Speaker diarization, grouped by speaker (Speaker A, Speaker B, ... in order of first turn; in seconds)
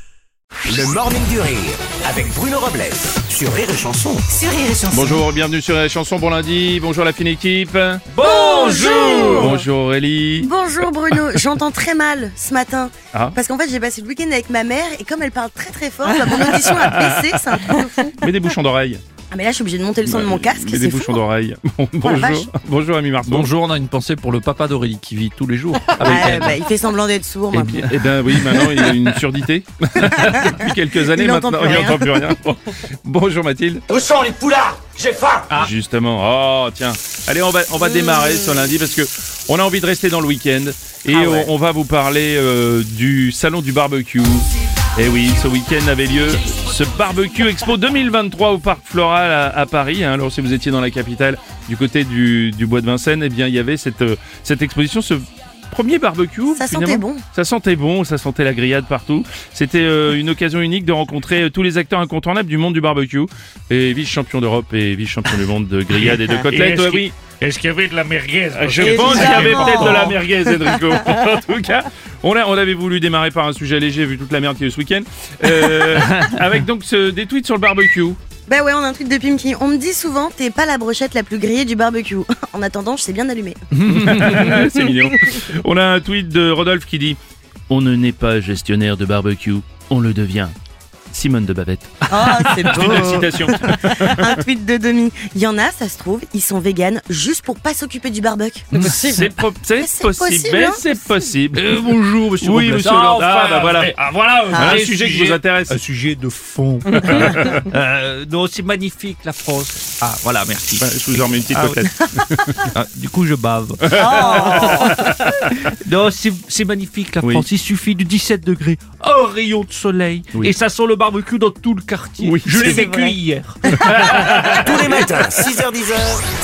Speaker A: 0.6-4.4, 33.9-35.6, 124.4-126.2
Speaker B: 4.9-8.1, 9.1-10.5, 16.3-19.0, 20.0-23.5, 26.1-26.4, 27.5-33.8, 35.5-67.1, 68.6-78.2, 83.8-87.2, 87.7-90.5, 91.1-94.4, 98.7-101.8, 102.4-103.9, 104.5-105.8, 106.9-107.6, 110.8-112.7, 113.8-114.2, 114.8-115.5, 117.2-117.5, 122.2-122.9, 123.7-124.9
Speaker C: 8.1-9.5, 23.3-26.6, 27.6-28.9, 84.0-84.4, 92.2-92.6, 101.6-103.6, 105.7-110.9, 111.5-111.8, 112.7-124.5
Speaker D: 8.2-9.6, 10.4-18.1, 19.3-21.2, 22.0-22.5, 25.9-27.9, 30.2-32.3, 37.9-38.3, 41.1-41.5, 56.5-57.2, 68.8-71.1, 78.5-83.8, 92.1-100.8, 104.5-104.8, 113.9-115.1
Speaker E: 8.3-9.3, 66.0-70.1, 103.2-105.3, 122.5-123.1